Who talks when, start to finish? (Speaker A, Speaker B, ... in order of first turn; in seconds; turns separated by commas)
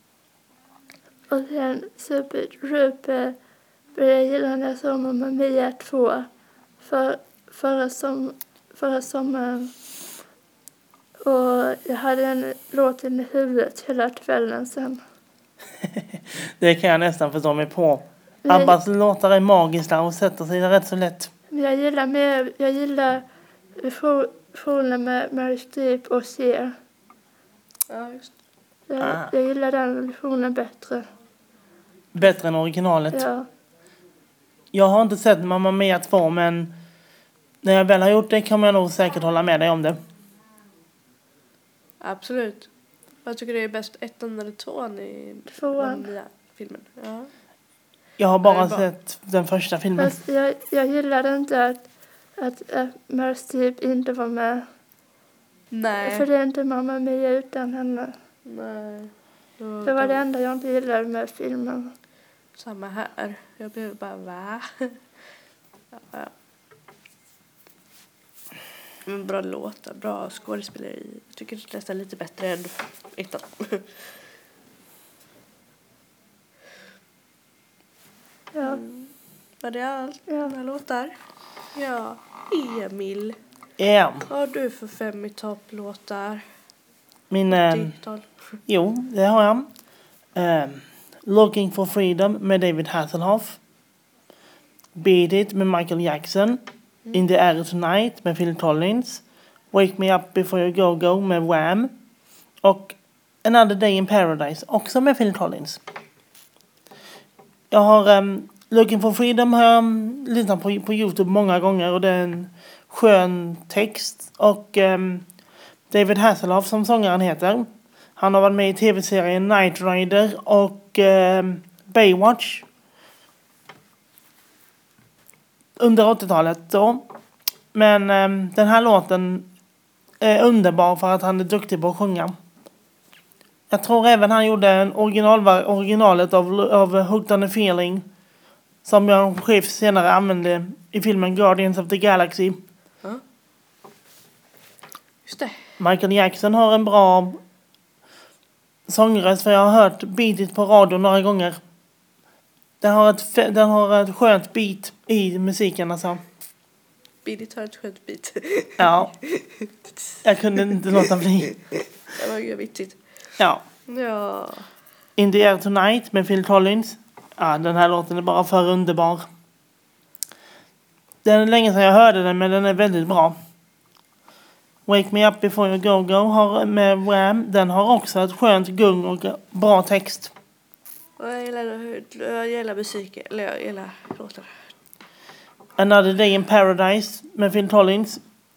Speaker A: 1.3-3.4, Speaker A: 3.9-6.3, Speaker A: 6.8-9.7, Speaker A: 11.2-15.0, Speaker B: 15.8-21.3, Speaker A: 18.4-18.8, Speaker A: 21.5-23.2, Speaker A: 23.8-26.7, Speaker C: 27.9-28.3, Speaker A: 28.9-31.1, Speaker B: 29.0-29.3, Speaker B: 32.1-33.2, Speaker A: 33.1-33.5, Speaker B: 34.7-36.7, Speaker B: 37.6-40.0, Speaker C: 42.0-42.7, Speaker C: 43.2-47.3, Speaker A: 45.6-46.1, Speaker B: 48.2-50.1, Speaker C: 48.4-48.9, Speaker A: 50.0-54.7, Speaker C: 55.7-56.3, Speaker A: 56.0-58.2, Speaker C: 58.5-60.2, Speaker A: 59.8-61.9, Speaker C: 62.5-64.9, Speaker C: 65.9-66.3, Speaker C: 69.0-74.0, Speaker A: 78.5-78.8, Speaker C: 78.6-81.1, Speaker C: 81.7-83.4, Speaker B: 83.8-84.3, Speaker C: 84.3-86.4, Speaker B: 87.3-87.9, Speaker C: 87.5-88.3, Speaker B: 88.7-89.7, Speaker B: 90.3-93.6, Speaker B: 95.0-96.6, Speaker B: 97.1-101.9, Speaker B: 102.6-105.8, Speaker B: 107.7-115.3, Speaker B: 115.9-122.7, Speaker B: 125.8-127.1, Speaker B: 127.7-129.5, Speaker B: 130.2-132.3, Speaker B: 133.7-138.0, Speaker B: 138.8-142.6, Speaker C: 145.2-145.6, Speaker B: 145.8-147.4, Speaker B: 148.9-151.6, Speaker B: 152.8-156.2, Speaker C: 157.2-159.7, Speaker B: 158.8-159.2, Speaker B: 160.2-161.6, Speaker C: 160.6-161.2, Speaker C: 162.1-163.0, Speaker C: 163.9-164.7, Speaker B: 165.2-169.3, Speaker B: 171.2-173.3, Speaker B: 174.9-180.3, Speaker C: 181.2-184.6, Speaker B: 185.8-188.2